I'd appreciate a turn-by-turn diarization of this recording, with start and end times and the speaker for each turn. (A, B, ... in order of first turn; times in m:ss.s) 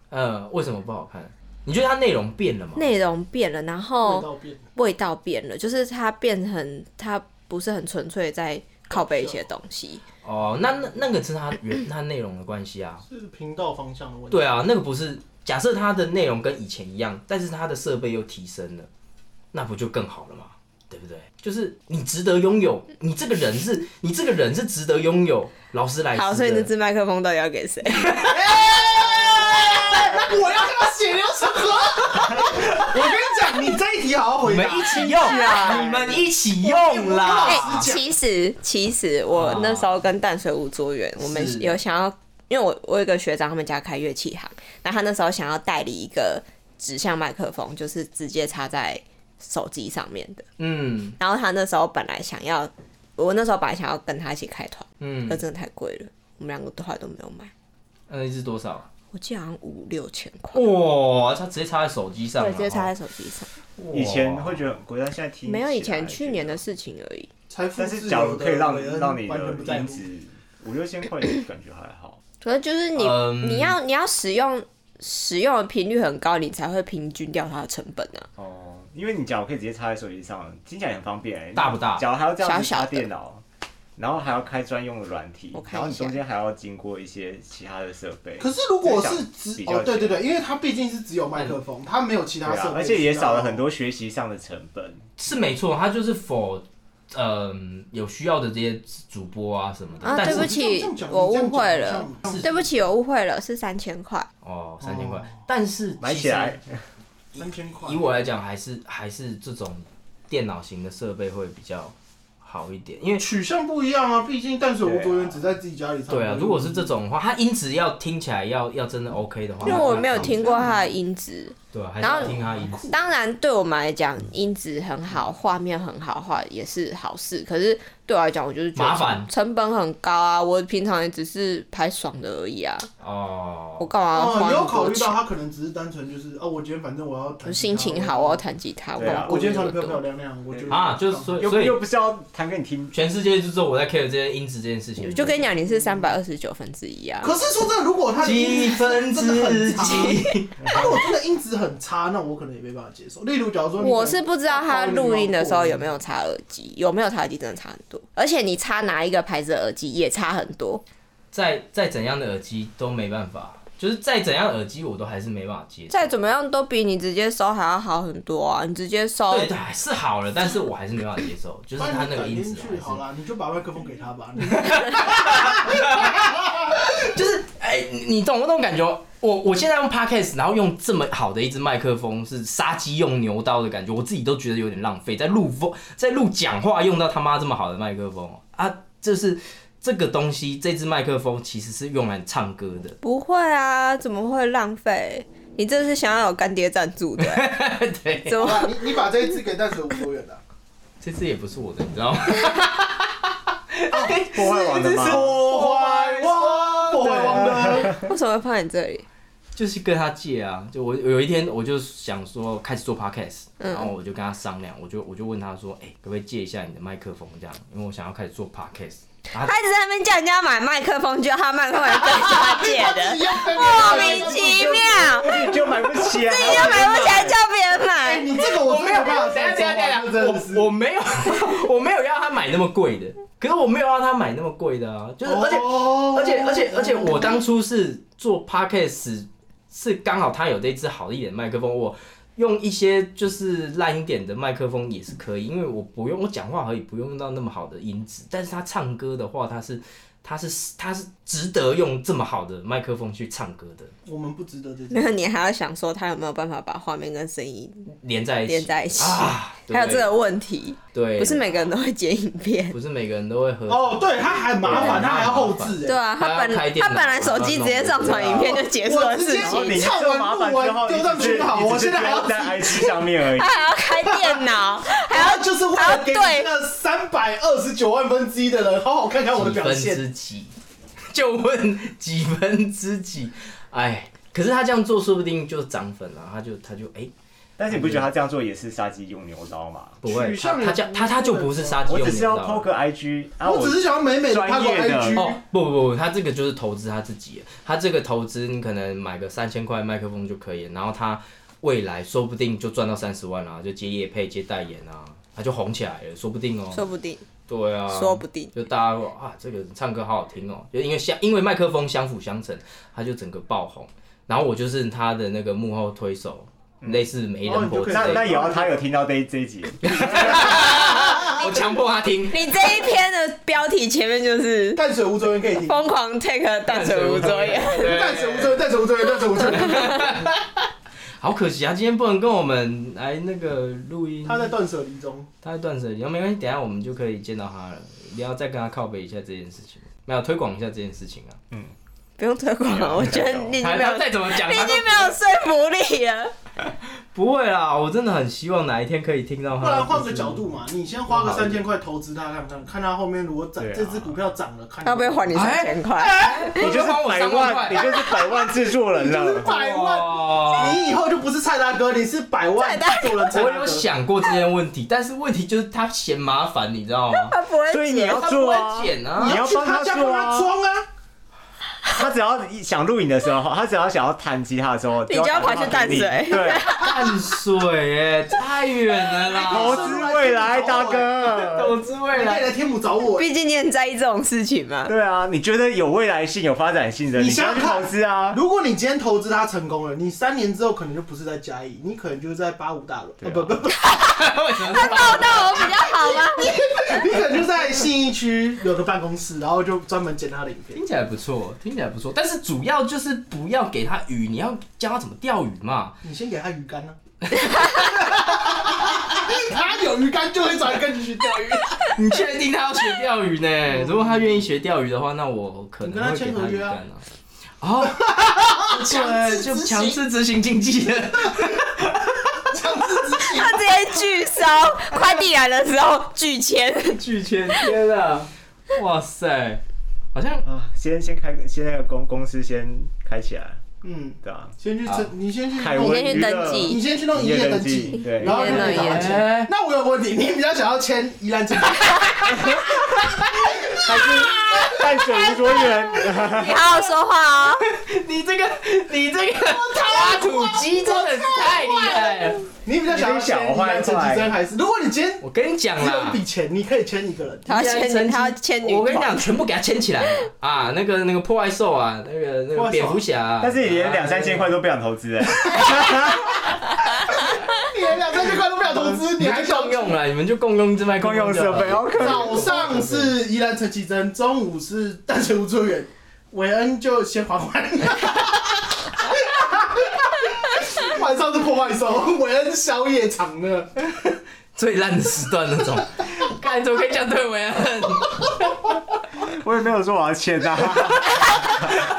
0:00.1-0:02.9 A
0:02.8-0:10.0 B
0:04.0-0:04.6 C
0:08.9-0:09.4 C
0:10.2-0:13.0 A
0:13.0-0:14.5 C
0:14.3-0:18.9 A
0:19.5-0:26.7 A
0:26.1-0:28.3 B
0:27.9-0:30.0 A
0:28.2-0:38.0 C
0:34.4-0:37.9 A
0:34.9-0:37.3 D
0:35.2-0:35.8 B
0:37.4-0:50.4 B
0:39.3-0:39.9 A
0:41.2-0:41.8 A
0:50.6-0:51.2 A
0:51.2-0:57.5 B
0:55.0-0:55.4 A
0:58.1-0:58.9 A
0:59.1-1:00.7 B
1:00.5-1:02.9 A
1:02.4-1:03.5 B
1:03.8-1:04.6 A
1:03.9-1:06.6 D
1:05.5-1:07.3 B
1:07.5-1:10.0 C
1:07.8-1:12.2 D
1:12.4-1:18.3 B
1:13.0-1:13.8 A
1:18.4-1:23.4 D
1:21.5-1:22.0 A
1:22.4-1:23.0 B
1:24.0-1:30.2 D
1:25.5-1:26.2 B
1:28.4-1:33.6 C
1:32.4-1:35.0 D
1:35.2-1:40.5 A
1:40.0-1:44.3 B
1:40.1-1:42.6 C
1:42.2-1:42.5 A
1:44.4-1:46.6 A
1:44.8-1:45.3 C
1:46.0-1:46.8 D
1:47.3-1:48.2 C
1:47.8-1:53.2 A
1:53.2-1:56.9 C
1:54.8-1:55.5 D
1:56.1-2:00.6 A
1:59.6-2:00.8 C
1:59.6-2:02.3 B
2:01.7-2:02.9 A
2:02.1-2:03.0 C
2:02.9-2:12.9 B
2:08.7-2:09.3 A
2:13.0-2:13.9 A
2:13.8-2:15.2 B
2:14.1-2:18.4 C
2:17.4-2:19.4 B
2:19.0-2:20.0 D
2:19.0-2:21.5 C
2:20.7-2:21.8 A
2:21.4-2:22.9 D
2:22.9-2:25.4 A
2:25.0-2:27.3 B
2:27.2-2:35.9 C
2:28.2-2:30.9 A
2:33.8-2:40.8 B
2:41.3-2:46.2 A
2:45.9-2:49.5 B
2:49.3-2:53.0 A
2:51.8-2:56.7 C
2:54.5-3:13.0 A
3:13.0-3:17.5 B
3:17.2-3:18.5 A
3:18.2-3:18.8 B
3:18.3-3:20.4 C
3:21.0-3:23.2 A
3:23.7-3:27.9 A
3:23.9-3:24.2 C
3:24.2-3:25.4 D
3:24.8-3:28.0 C
3:27.8-3:29.0 B
3:29.6-3:39.5 A
3:33.6-3:33.9 B
3:39.4-3:48.3 B
3:41.9-3:44.8 C
3:43.7-3:47.4 D
3:46.5-3:46.7 C
3:48.0-3:50.6 C
3:48.5-4:13.9 A
3:55.2-3:57.4 C
4:14.0-4:15.1 C
4:14.9-4:17.9 B
4:17.9-4:20.1 A
4:18.4-4:22.8 B
4:20.9-4:21.7 A
4:22.7-4:28.6 A
4:23.7-4:26.0 C
4:25.8-4:29.8 B
4:28.7-4:33.1 C
4:29.4-4:33.6 D
4:33.3-4:36.5 B
4:34.0-4:34.4 C
4:35.1-4:40.0 C
4:39.3-4:40.5 A
4:41.1-4:47.1 A
4:47.6-4:50.0 D
4:47.7-4:48.1 A
4:50.0-4:52.7 A
4:50.0-4:52.0 C
4:51.8-4:55.4 D
4:53.4-4:55.4 C
4:55.1-5:06.8 A
5:06.7-5:07.2 B
5:07.5-5:18.4 A
5:07.9-5:08.5 B
5:17.4-5:18.9 C
5:17.9-5:20.6 D
5:19.8-5:22.5 A
5:20.6-5:21.4 C
5:22.3-5:24.8 B
5:24.8-5:25.8 C
5:25.6-5:28.0 B
5:26.7-5:28.7 A
5:27.8-5:30.2 C
5:29.3-5:30.6 A
5:31.2-5:34.5 A
5:34.2-5:35.3 C
5:35.4-5:41.4 A
5:42.2-5:46.3 B
5:42.7-5:43.6 D
5:43.6-5:45.2 A
5:47.1-5:50.4 A
5:49.6-5:55.5 C
5:51.1-5:51.6 A
5:53.6-5:54.2 D
5:54.8-5:56.6 B
5:55.3-5:58.0 A
5:56.6-5:59.5 D
5:58.9-6:03.8 C
5:59.4-6:00.8 A
6:02.6-6:03.4 B
6:03.3-6:07.3 A
6:07.1-6:08.4 B
6:07.7-6:10.5 D
6:08.1-6:09.4 A
6:09.2-6:10.8 C
6:11.9-6:16.7 D
6:15.1-6:17.1 B
6:16.7-6:20.0 A
6:19.2-6:21.5 C
6:19.4-6:21.8 D
6:21.4-6:22.5 A
6:22.1-6:23.3 C
6:23.2-6:24.9 B
6:24.8-6:28.4 D
6:27.1-6:33.9 C
6:33.2-6:33.5 D
6:33.9-6:35.8 A
6:34.6-6:37.0 B
6:34.8-6:40.8 C
6:40.7-6:46.0 A
6:46.0-6:47.0 C
6:47.3-6:48.2 A
6:47.7-6:51.9 C
6:51.9-6:57.0 A
6:53.7-6:54.4 C
6:55.8-6:56.8 C
6:57.6-7:02.4 A
6:57.8-7:00.0 C
7:02.4-7:03.7 C
7:03.3-7:07.0 B
7:07.0-7:09.6 A
7:10.1-7:10.4 A
7:10.4-7:13.6 D
7:13.8-7:24.8 C
7:14.2-7:14.5 D
7:14.8-7:15.1 A
7:15.5-7:18.7 D
7:15.7-7:16.8 B
7:18.1-7:19.2 B
7:18.3-7:19.5 A
7:22.3-7:23.2 A
7:23.8-7:26.7 D
7:26.1-7:27.6 B
7:27.7-7:32.4 A
7:29.4-7:35.2 C
7:32.9-7:34.3 D
7:35.2-7:36.2 A
7:35.8-7:37.5 C
7:37.4-7:39.2 B
7:37.5-7:44.5 A
7:42.5-7:43.0 C
7:43.4-7:46.3 D
7:45.6-7:46.5 C
7:47.0-7:50.0 C
7:48.7-7:53.2 A
7:51.0-7:52.4 D
7:51.9-8:03.7 C
8:03.8-8:08.6 A
8:09.2-8:11.6 D